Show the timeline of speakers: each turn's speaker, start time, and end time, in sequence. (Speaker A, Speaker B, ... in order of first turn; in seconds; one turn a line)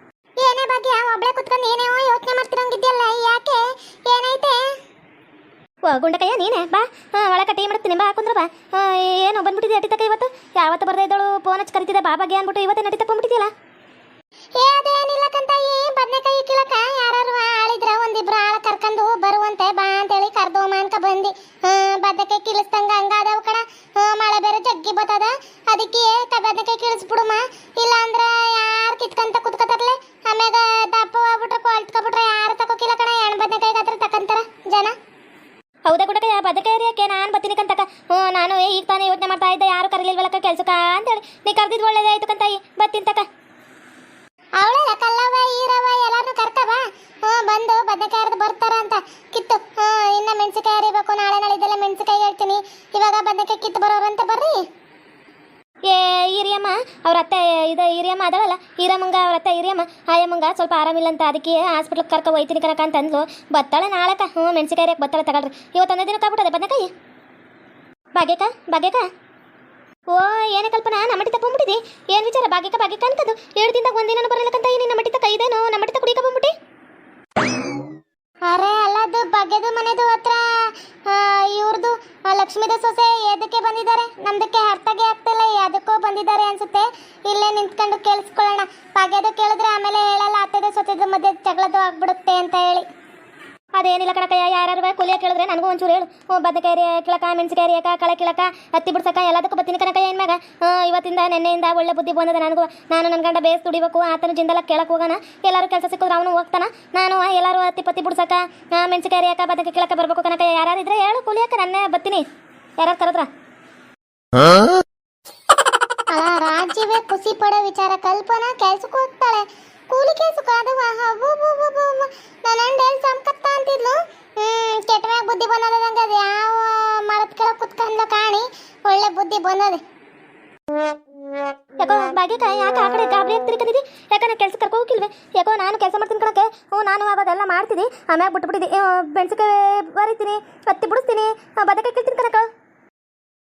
Speaker A: 0.4-4.6
Speaker B: 5.9-13.5
Speaker A: 14.6-34.9
Speaker B: 35.9-43.2
Speaker A: 44.6-54.6
Speaker B: 55.9-66.9
Speaker B: 68.1-69.0
Speaker B: 70.1-76.5
Speaker A: 78.5-92.8
Speaker B: 93.8-112.2
Speaker B: 112.8-113.3
Speaker A: 116.1-129.8
Speaker B: 131.8-142.5